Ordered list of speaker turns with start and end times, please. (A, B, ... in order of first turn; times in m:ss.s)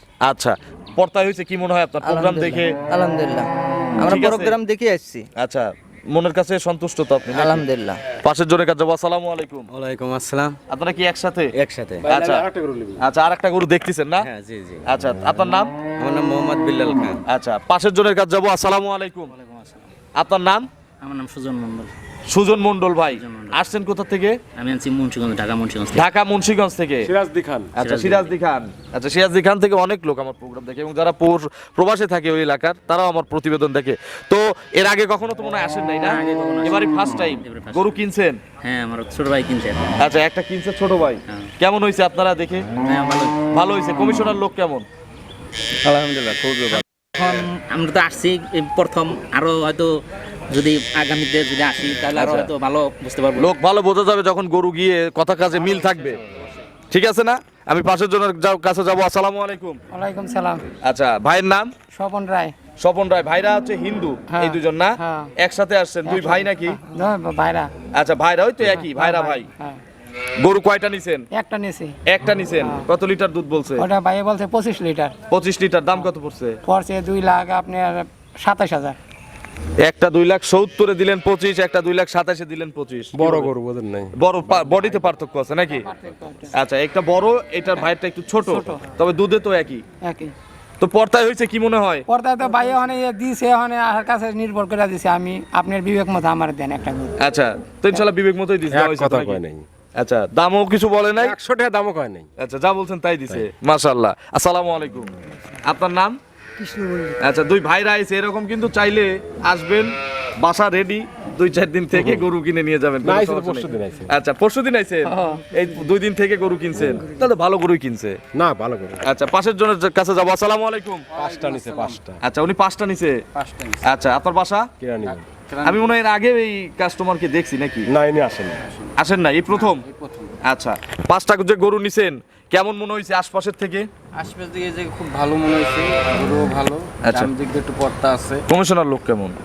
0:00.2-0:02.8 A
0:02.0-0:03.5 B
0:04.0-0:05.2 B
0:04.0-0:04.5 A
0:05.4-0:07.6 A
0:07.3-0:08.0 B
0:08.2-0:09.7 A
0:09.7-0:10.6 C
0:10.7-0:11.5 A
0:11.5-0:12.2 C
0:12.0-0:12.4 A
0:12.1-0:13.0 D
0:13.0-0:14.3 A
0:14.2-0:14.9 C
0:14.8-0:15.7 A
0:16.0-0:17.2 C
0:17.2-0:19.3 A
0:20.1-0:20.7 A
0:21.0-0:21.9 E
0:22.3-0:24.4 A
0:23.1-0:23.6 E
0:24.6-0:26.0 E
0:25.9-0:27.1 A
0:27.0-0:27.7 D
0:27.7-0:38.4 A
0:27.8-0:28.3 E
0:36.0-0:38.0 E
0:38.6-0:39.9 E
0:40.0-0:42.7 A
0:42.8-0:43.4 E
0:43.5-0:44.8 A
0:45.8-0:46.8 C
0:47.2-0:50.0 E
0:50.5-0:53.5 E
0:52.2-0:52.5 A
0:53.4-0:56.2 A
0:55.6-0:56.1 C
0:56.9-0:59.8 A
0:59.9-1:00.6 F
1:00.8-1:01.7 A
1:01.9-1:02.5 F
1:02.8-1:06.8 A
1:04.3-1:05.3 F
1:06.0-1:07.7 F
1:07.9-1:09.5 A
1:08.7-1:09.8 F
1:10.4-1:11.3 A
1:11.3-1:12.0 F
1:12.0-1:13.8 A
1:12.6-1:12.9 F
1:13.8-1:15.1 F
1:15.3-1:16.6 A
1:16.6-1:19.0 F
1:19.8-1:23.5 A
1:23.1-1:24.2 D
1:24.1-1:25.9 A
1:25.7-1:26.5 F
1:26.5-1:29.8 A
1:28.4-1:28.8 F
1:30.0-1:30.3 F
1:30.8-1:32.1 A
1:32.1-1:37.2 F
1:37.2-1:39.4 A
1:38.7-1:39.6 D
1:40.0-1:41.4 A
1:41.2-1:42.3 D
1:42.4-1:45.1 A
1:45.6-1:46.2 A
1:46.6-1:47.1 F
1:47.2-1:58.2 A
1:51.9-1:52.2 D
1:53.0-1:54.1 D
1:55.1-1:55.4 F
1:58.3-1:59.0 D
1:59.0-2:01.0 A
2:01.2-2:02.0 C
2:01.2-2:02.2 D
2:02.2-2:03.2 A
2:03.3-2:03.8 C
2:03.8-2:04.7 A
2:04.8-2:05.3 D
2:05.0-2:05.8 C
2:05.6-2:07.9 A
2:07.9-2:08.6 D
2:09.0-2:09.8 A
2:09.5-2:10.4 C
2:10.4-2:13.9 A
2:14.1-2:18.4 C
2:17.0-2:17.3 A
2:18.5-2:19.4 A